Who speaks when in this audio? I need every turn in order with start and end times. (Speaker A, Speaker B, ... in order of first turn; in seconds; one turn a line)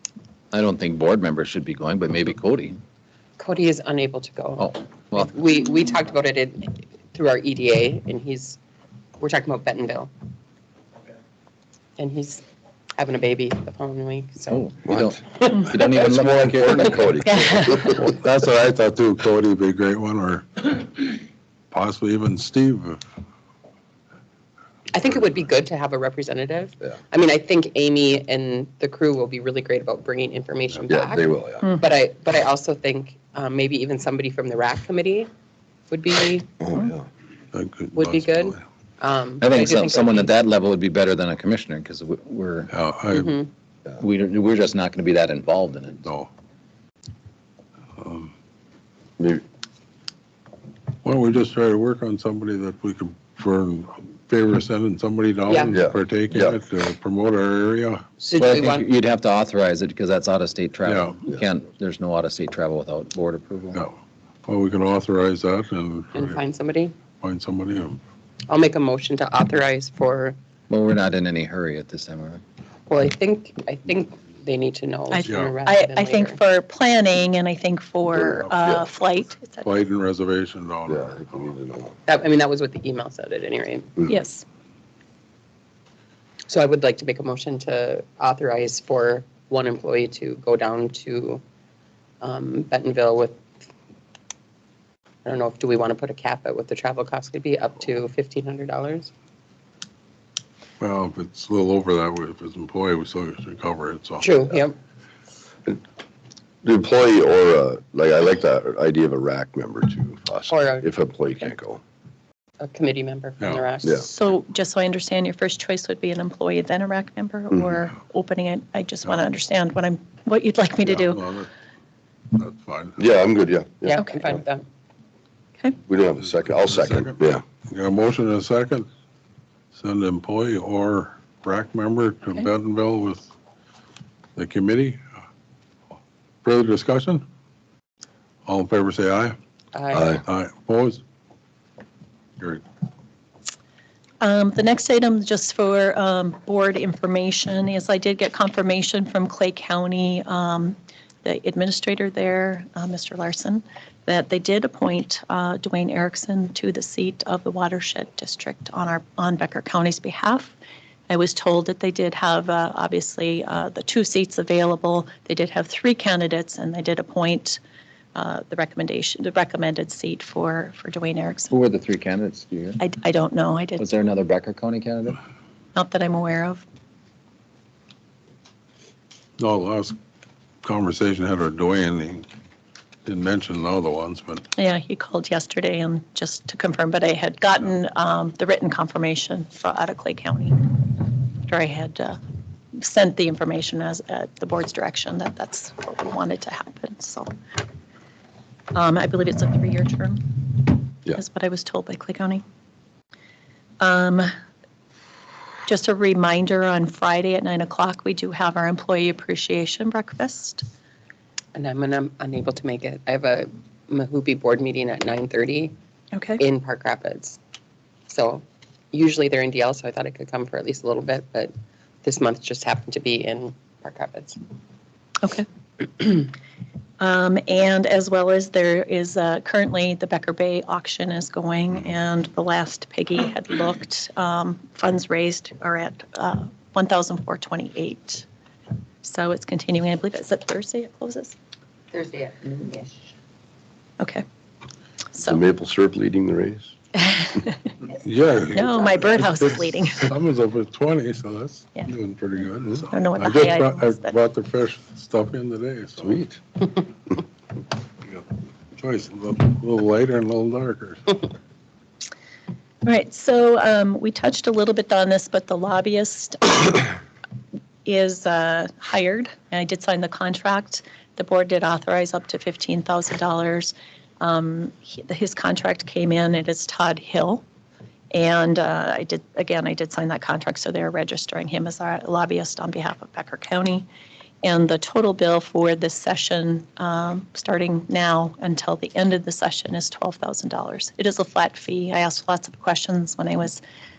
Speaker A: 0.5-2.8
Speaker B: 3.4-8.6
Speaker A: 4.6-5.3
Speaker B: 9.2-10.1
Speaker B: 12.0-12.4
Speaker B: 13.0-14.7
Speaker A: 14.5-17.7
Speaker C: 14.9-15.2
Speaker B: 15.3-15.7
Speaker C: 15.8-18.1
Speaker D: 17.3-17.8
Speaker E: 17.9-21.2
Speaker E: 21.7-23.0
Speaker B: 24.9-35.3
Speaker C: 30.9-31.7
Speaker B: 35.9-36.5
Speaker C: 36.6-37.0
Speaker E: 37.5-38.6
Speaker B: 37.9-40.4
Speaker A: 39.4-42.7
Speaker E: 42.7-43.4
Speaker B: 43.1-43.5
Speaker A: 44.0-46.0
Speaker E: 46.0-46.3
Speaker E: 48.0-48.3
Speaker E: 51.0-58.0
Speaker B: 55.5-55.8
Speaker C: 55.7-56.6
Speaker B: 58.2-58.9
Speaker A: 58.3-63.8
Speaker E: 60.8-61.2
Speaker E: 63.7-66.4
Speaker B: 66.1-66.9
Speaker E: 67.2-68.0
Speaker B: 68.5-70.3
Speaker A: 70.7-72.4
Speaker B: 72.9-76.4
Speaker D: 75.1-79.8
Speaker E: 75.2-75.6
Speaker C: 78.1-78.8
Speaker E: 79.6-81.5
Speaker C: 80.9-81.9
Speaker B: 82.0-83.9
Speaker D: 84.1-84.4
Speaker B: 86.5-91.4
Speaker B: 92.2-93.4
Speaker B: 95.2-99.1
Speaker E: 100.8-104.3
Speaker B: 104.2-104.8
Speaker C: 106.6-111.8
Speaker B: 110.5-110.9
Speaker B: 112.6-114.0
Speaker E: 113.4-113.7
Speaker D: 114.0-121.2
Speaker E: 120.8-121.5
Speaker E: 122.3-123.1
Speaker C: 123.0-124.4
Speaker B: 123.8-124.7
Speaker C: 125.9-127.4
Speaker E: 126.4-127.2
Speaker E: 127.7-128.9
Speaker E: 129.7-133.3
Speaker E: 134.3-135.0
Speaker E: 136.4-137.2
Speaker E: 138.4-139.3
Speaker B: 139.7-140.2
Speaker C: 139.9-140.2
Speaker E: 140.2-141.0
Speaker D: 144.2-160.5
Speaker D: 161.1-167.6
Speaker D: 168.1-171.5
Speaker A: 171.5-172.8
Speaker D: 172.8-173.9
Speaker A: 173.8-175.2
Speaker D: 175.7-176.6
Speaker E: 179.4-179.9
Speaker E: 180.6-182.2
Speaker E: 183.1-184.4
Speaker D: 184.6-192.2
Speaker D: 192.7-197.3
Speaker D: 198.7-202.4
Speaker D: 203.8-204.3
Speaker D: 205.7-210.6
Speaker B: 211.5-215.7
Speaker D: 216.1-216.4
Speaker B: 216.4-217.4
Speaker B: 218.1-221.5
Speaker B: 222.0-224.4
Speaker D: 226.0-226.3
Speaker D: 227.0-238.2
Speaker D: 239.0-241.3
Speaker B: 241.9-243.1
Speaker D: 245.1-245.4
Speaker C: 245.2-246.7
Speaker D: 247.1-247.4
Speaker E: 247.9-256.2
Speaker D: 248.5-250.1
Speaker D: 252.9-254.2
Speaker C: 256.0-256.4
Speaker E: 258.8-261.2
Speaker D: 262.8-267.0
Speaker D: 267.8-277.4
Speaker D: 278.1-283.9
Speaker D: 284.4-293.6